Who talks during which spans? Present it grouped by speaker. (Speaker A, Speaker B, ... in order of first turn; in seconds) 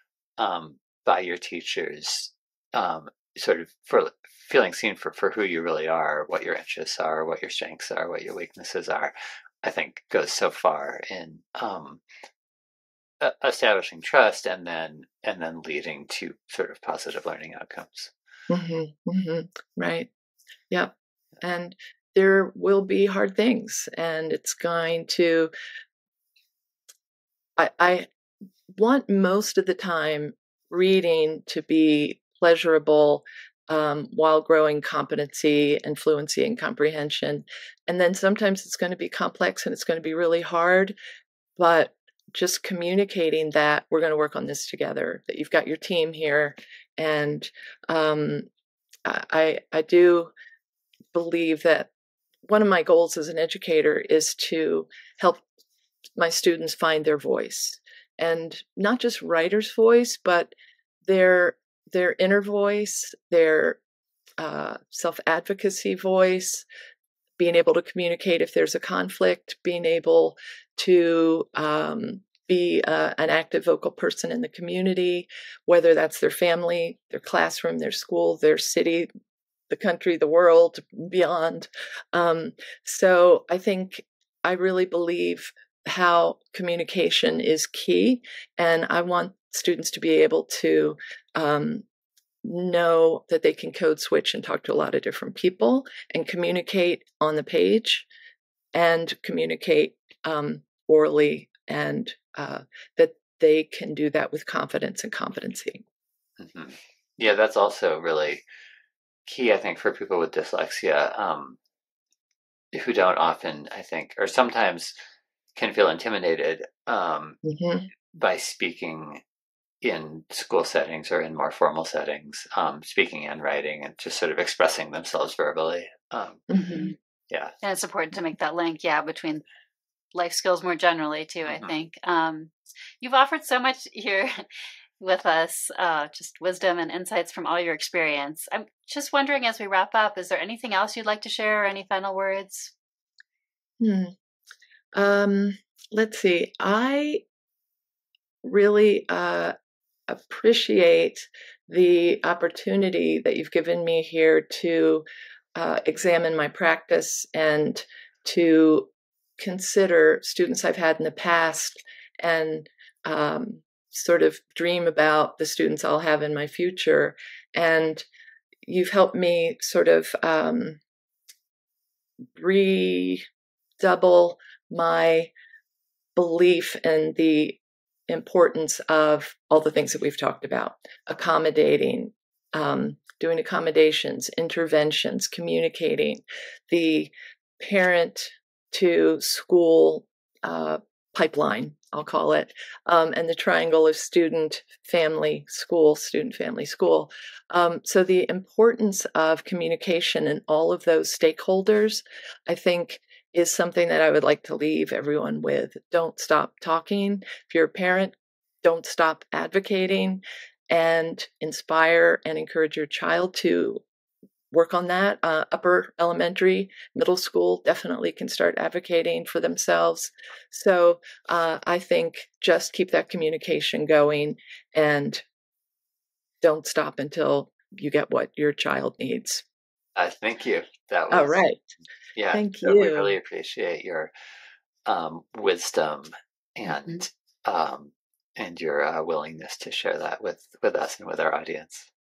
Speaker A: 0.4-12.0, 13.2-18.1, 106.4-108.5, 109.3-111.6, 112.7-115.0, 115.6-117.4, 118.1-119.2, 119.8-127.5, 131.4-131.7, 230.0-231.4, 232.2-234.1, 234.9-241.9
Speaker B: 18.5-20.1, 20.7-25.5, 27.6-28.1, 28.7-41.0, 41.6-48.5, 49.1-50.3, 51.1-51.9, 52.5-55.4, 56.2-60.5, 61.0-63.8, 64.4-66.7, 67.4-79.1, 79.7-91.8, 92.4-98.1, 98.8-105.8, 117.4-117.9, 126.5-126.9, 143.8-144.1, 144.9-147.2, 148.4-149.5, 150.1-155.1, 155.6-168.1, 168.7-170.8, 172.4-173.2, 173.8-175.3, 176.2-213.8, 214.5-225.2, 226.4-229.4, 231.1-231.6, 232.3-233.2
Speaker C: 127.6-129.4, 130.1-134.3, 135.0-142.7